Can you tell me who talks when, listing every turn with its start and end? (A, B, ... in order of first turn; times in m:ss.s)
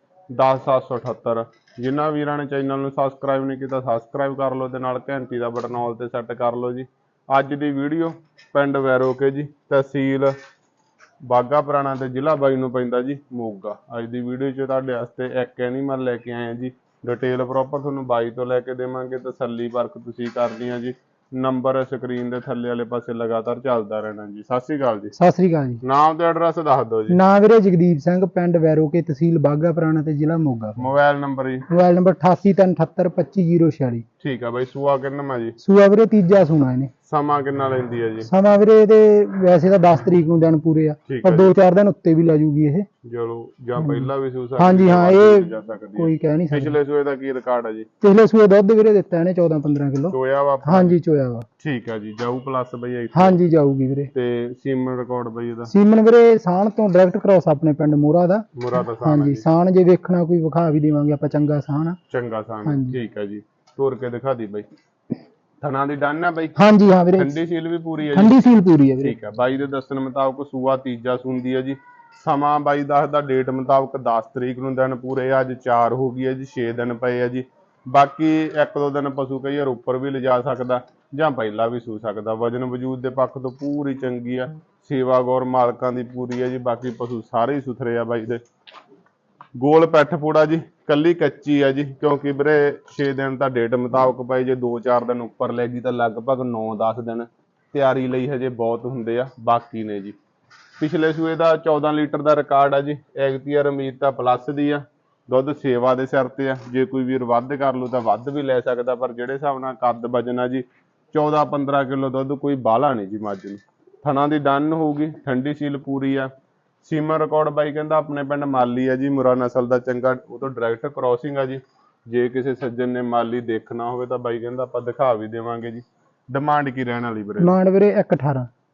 0:00.3-0:10.4 A
0:11.2-0:25.2 A
0:25.2-0:25.8 B
0:25.8-0:27.2 A
0:27.1-0:30.9 B
0:30.8-0:31.7 A
0:31.7-0:34.0 B
0:34.2-0:35.6 A
0:35.6-0:36.9 B
0:37.0-0:38.3 A
0:38.3-0:42.9 B
0:41.1-0:41.5 A
0:43.1-0:47.9 A
0:43.8-0:46.8 B
0:48.0-0:51.5 B
0:50.1-0:51.0 A
0:51.6-0:53.4 A
0:53.1-0:54.1 B
0:54.1-0:55.7 A
0:55.7-0:58.5 B
0:58.6-0:59.4 A
0:59.0-1:02.0 B
1:02.1-1:04.7 A
1:02.6-1:03.0 B
1:05.6-1:06.6 A
1:06.6-1:07.4 B
1:07.2-1:08.4 A
1:08.1-1:09.2 B
1:09.0-1:28.4 A
1:29.6-1:40.2 A
1:40.8-1:56.3 A
1:56.8-2:07.6 A
2:07.4-2:08.5 B